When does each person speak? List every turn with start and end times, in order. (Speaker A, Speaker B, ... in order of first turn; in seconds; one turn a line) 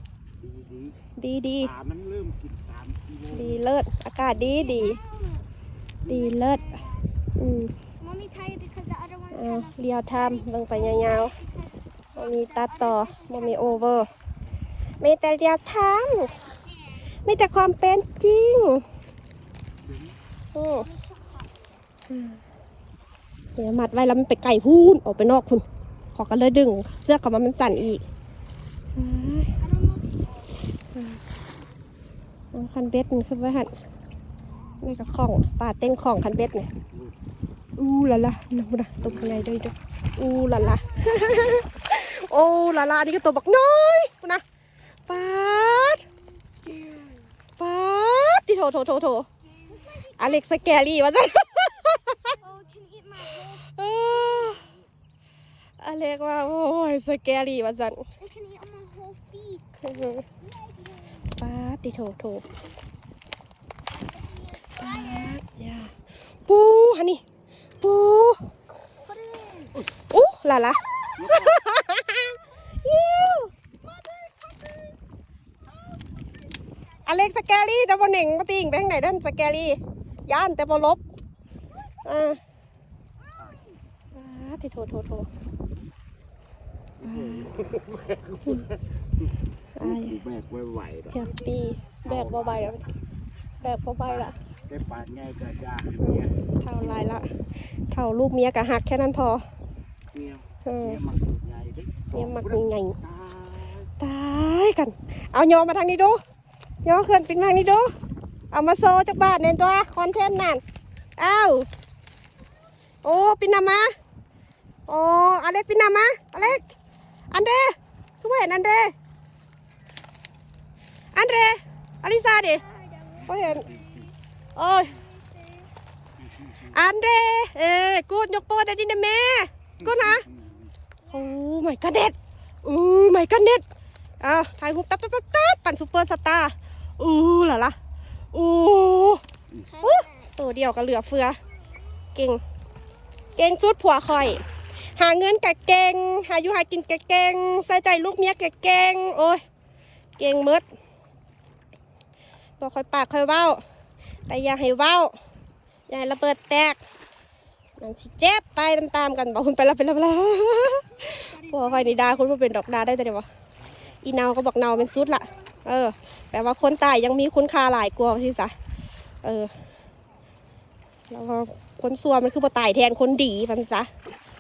Speaker A: 0.4-1.0
Speaker B: 1.2-1.7
Speaker A: 1.6-3.6
Speaker B: 3.3-5.0
Speaker C: 4.4-5.5
Speaker B: 6.1-6.8
Speaker C: 6.1-7.1
Speaker B: 7.4-7.7
Speaker C: 8.0-13.8
Speaker B: 9.3-11.3
Speaker B: 12.2-14.1
Speaker B: 15.0-16.4
Speaker C: 16.3-17.1
Speaker B: 17.2-18.9
Speaker B: 20.6-20.9
Speaker C: 20.7-21.5
Speaker B: 22.1-22.4
Speaker B: 23.6-28.0
Speaker B: 28.9-29.5
Speaker C: 29.6-30.5
Speaker B: 30.9-31.2
Speaker B: 32.5-33.8
Speaker B: 34.8-36.7
Speaker B: 37.8-44.4
Speaker A: 39.1-39.5
Speaker C: 40.5-41.2
Speaker B: 45.1-46.0
Speaker C: 46.5-47.2
Speaker B: 47.6-49.3
Speaker C: 49.7-50.4
Speaker B: 50.2-52.4
Speaker C: 52.4-54.7
Speaker B: 53.5-54.6
Speaker B: 55.8-58.0
Speaker C: 58.2-59.8
Speaker B: 59.8-60.2
Speaker C: 60.4-61.2
Speaker B: 61.4-62.4
Speaker C: 64.1-65.4
Speaker B: 64.8-65.9
Speaker B: 66.5-67.2
Speaker B: 67.8-68.4
Speaker C: 69.1-69.7
Speaker B: 70.1-73.5
Speaker A: 71.2-71.5
Speaker C: 73.9-74.9
Speaker B: 77.0-81.0
Speaker B: 82.1-82.4
Speaker C: 83.3-83.7
Speaker B: 84.2-85.3
Speaker A: 87.0-88.7
Speaker B: 87.0-87.5
Speaker B: 89.8-90.2
Speaker A: 89.8-91.1
Speaker B: 91.1-92.9
Speaker A: 92.1-92.7
Speaker B: 93.6-94.4
Speaker A: 94.7-96.4
Speaker B: 96.0-97.3
Speaker B: 97.9-99.4
Speaker A: 100.1-103.9
Speaker B: 100.7-101.0
Speaker B: 102.1-103.0
Speaker B: 104.0-106.2
Speaker B: 106.8-107.9
Speaker B: 108.5-110.6
Speaker B: 111.2-111.7
Speaker B: 113.0-113.9
Speaker B: 114.9-116.7
Speaker B: 117.3-118.9
Speaker B: 121.2-122.6
Speaker C: 122.7-124.1
Speaker B: 123.2-123.7
Speaker B: 124.6-125.0
Speaker C: 125.0-125.7
Speaker B: 126.6-130.3
Speaker A: 129.8-130.7
Speaker B: 131.1-133.6
Speaker B: 134.2-137.8
Speaker B: 138.3-139.2
Speaker C: 139.6-140.3
Speaker B: 139.8-141.4
Speaker B: 142.2-142.4
Speaker B: 143.4-144.4
Speaker B: 144.9-149.4
Speaker B: 150.2-150.6
Speaker B: 152.6-153.6
Speaker B: 154.3-155.1
Speaker B: 155.9-156.8
Speaker B: 157.8-163.3
Speaker C: 161.2-162.0
Speaker B: 164.0-168.5
Speaker C: 164.9-165.3
Speaker B: 169.2-169.5
Speaker B: 171.1-173.9